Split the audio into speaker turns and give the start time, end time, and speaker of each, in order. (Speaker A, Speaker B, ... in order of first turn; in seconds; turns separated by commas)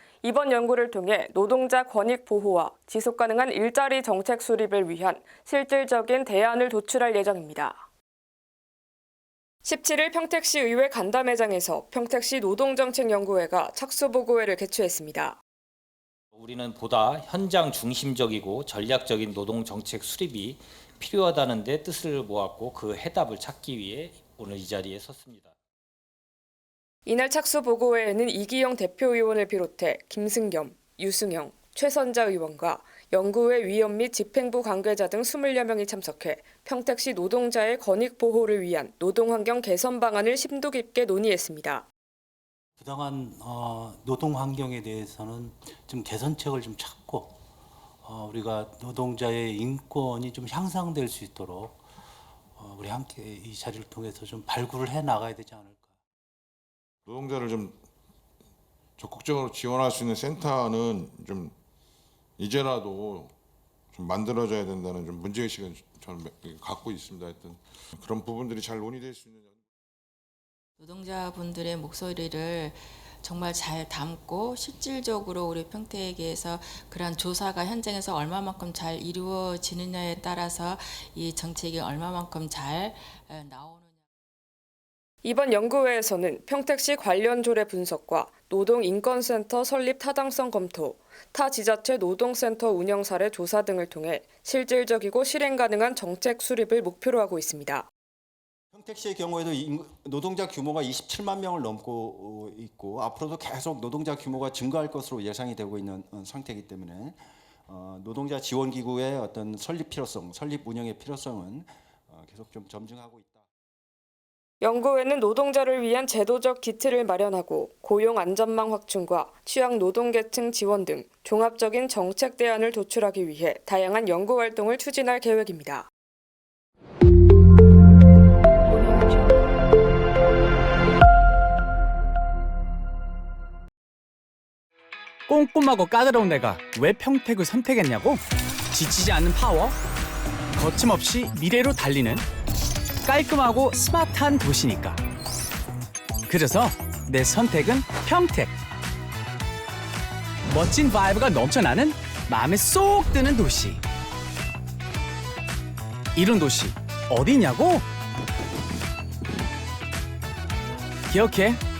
Speaker A: 0.2-7.8, Speaker A: 9.6-15.4, Speaker B: 16.3-25.6, Speaker A: 27.1-41.9, Speaker C: 42.8-47.4, Speaker C: 48.0-51.8, Speaker C: 52.5-56.0, Speaker D: 57.1-57.8, Speaker D: 59.0-61.5, Speaker D: 62.4-63.3, Speaker D: 63.9-69.6, Speaker E: 70.8-84.0, Speaker A: 85.2-97.9, Speaker F: 98.7-113.5, Speaker A: 114.6-125.9, Speaker G: 135.3-139.8, Speaker G: 140.6-142.2, Speaker G: 143.0-145.0, Speaker G: 146.3-148.5, Speaker G: 150.5-153.8, Speaker G: 156.2-157.9, Speaker G: 161.1-161.6